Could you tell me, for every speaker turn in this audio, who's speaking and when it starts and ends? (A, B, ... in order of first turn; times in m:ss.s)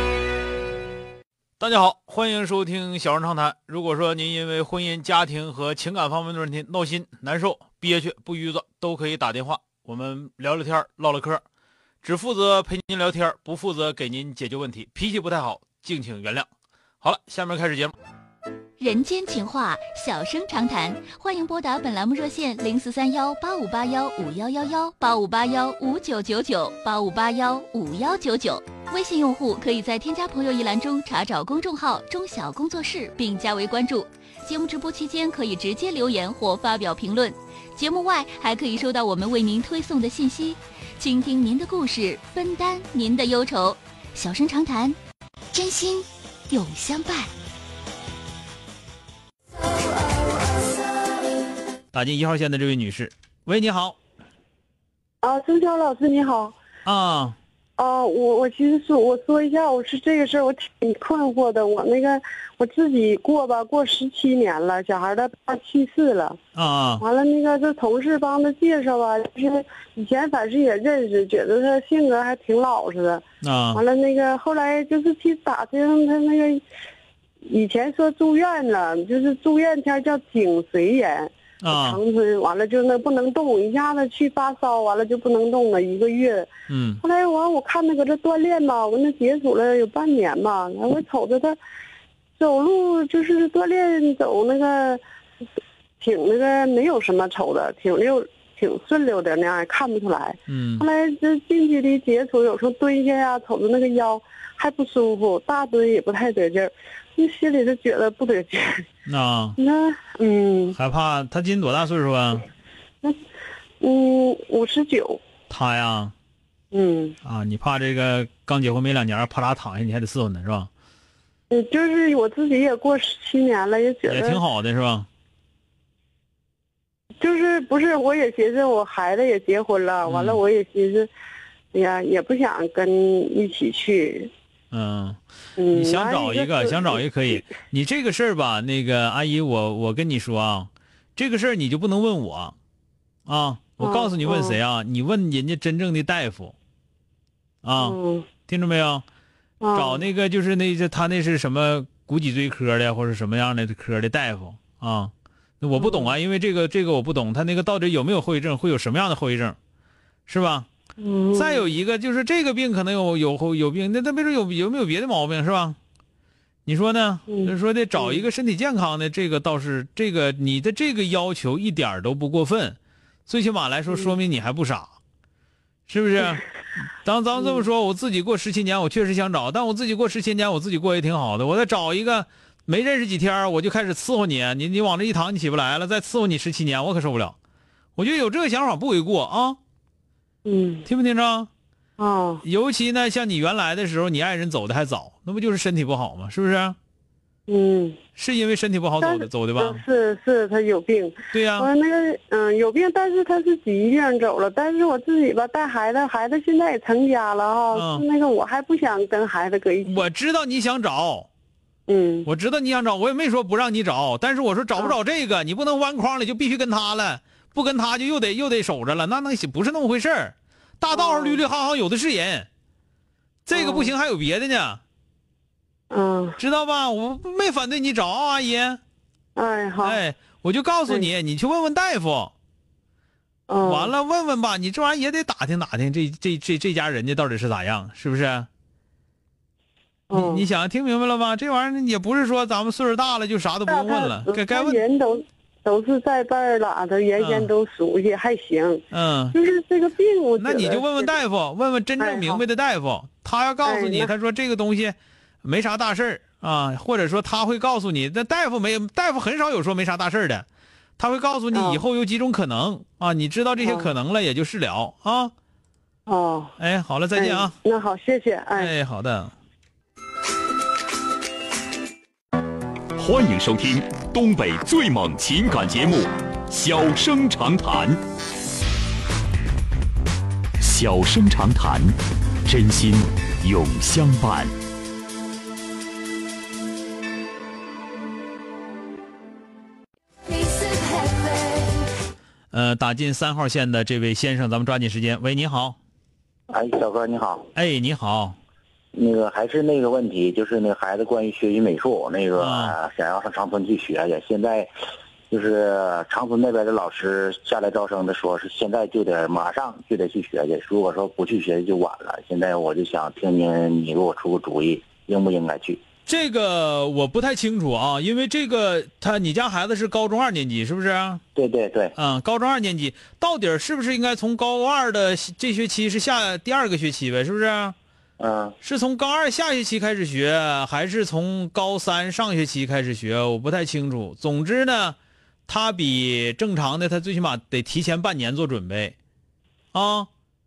0:01.6-0:11.4 A
0:12.0-0:16.5 A
0:17.0-0:17.9 A
0:18.8-0:45.0 B
0:45.5-0:47.3 B
0:51.9-0:54.0 A
0:55.2-0:56.6 C
0:56.8-0:57.4 A
0:57.8-1:06.4 C
1:06.6-1:07.0 A
1:07.0-1:16.6 C
1:13.4-1:13.8 A
1:17.5-1:26.5 C
1:21.6-1:22.0 A
1:26.7-1:27.0 A
1:27.0-1:31.6 C
1:32.4-1:35.0 C
1:36.0-1:48.9 C
1:40.5-1:40.9 A
1:49.1-1:49.6 A
1:49.6-1:50.8 C
1:50.8-1:52.5 A
1:53.8-1:55.2 C
1:55.5-1:56.1 A
1:56.7-1:57.2 C
1:57.2-2:00.7 A
2:01.5-2:04.4 C
2:04.1-2:05.1 A
2:07.2-2:11.1 C
2:10.0-2:10.4 A
2:11.7-2:14.3 C
2:14.7-2:15.2 A
2:15.6-2:17.4 C
2:15.7-2:22.6 A
2:23.3-2:26.6 A
2:23.8-2:24.6 C
2:27.6-2:29.0 A
2:27.8-2:28.3 C
2:29.6-2:30.1 C
2:29.7-2:39.6 A
2:35.8-2:36.1 C
2:40.3-2:40.7 A
2:41.0-2:41.7 C
2:41.4-2:45.8 A
2:46.7-2:54.9 A
2:47.3-2:48.2 C
2:55.9-2:56.5 A
2:57.0-3:07.4 A
3:08.0-3:09.6 A
3:10.4-3:10.9 C
3:10.9-3:11.5 A
3:12.0-3:12.4 C
3:12.4-3:16.8 A
3:17.5-3:18.0 C
3:18.2-3:19.8 A
3:19.0-3:30.0 C
3:21.3-3:21.7 A
3:27.7-3:28.0 A
3:29.8-3:31.3 A
3:31.9-3:32.3 C
3:32.2-3:42.5 A
3:40.9-3:41.4 C
3:43.5-3:44.8 A
3:43.5-3:43.9 C
3:45.9-3:46.4 C
3:46.4-3:48.8 A
3:49.4-3:50.0 C
3:49.8-3:52.3 A
3:53.5-3:53.9 C
3:53.6-3:58.5 A
4:00.1-4:00.5 C
4:00.1-4:04.8 A
4:03.7-4:11.2 C
4:07.2-4:07.5 A
4:08.9-4:09.4 A
4:10.4-4:20.5 A
4:12.0-4:12.4 C
4:13.6-4:14.1 C
4:21.0-4:25.3 A
4:21.5-4:21.8 C
4:23.6-4:23.9 C
4:26.1-4:26.6 C
4:26.6-4:27.6 A
4:27.1-4:28.7 C
4:28.6-4:29.3 A
4:33.0-4:38.0 D
4:40.6-4:44.5 D
4:52.5-4:55.8 A
4:56.5-4:57.5 E
4:57.6-4:58.4 A
4:58.9-5:04.7 E
5:02.4-5:02.8 A
5:05.3-5:15.8 E
5:16.1-5:21.2 A
5:21.4-5:21.9 E
5:22.0-5:27.8 A
5:28.2-5:28.6 E
5:28.6-5:35.0 A
5:35.5-5:39.0 A
5:39.7-5:40.1 A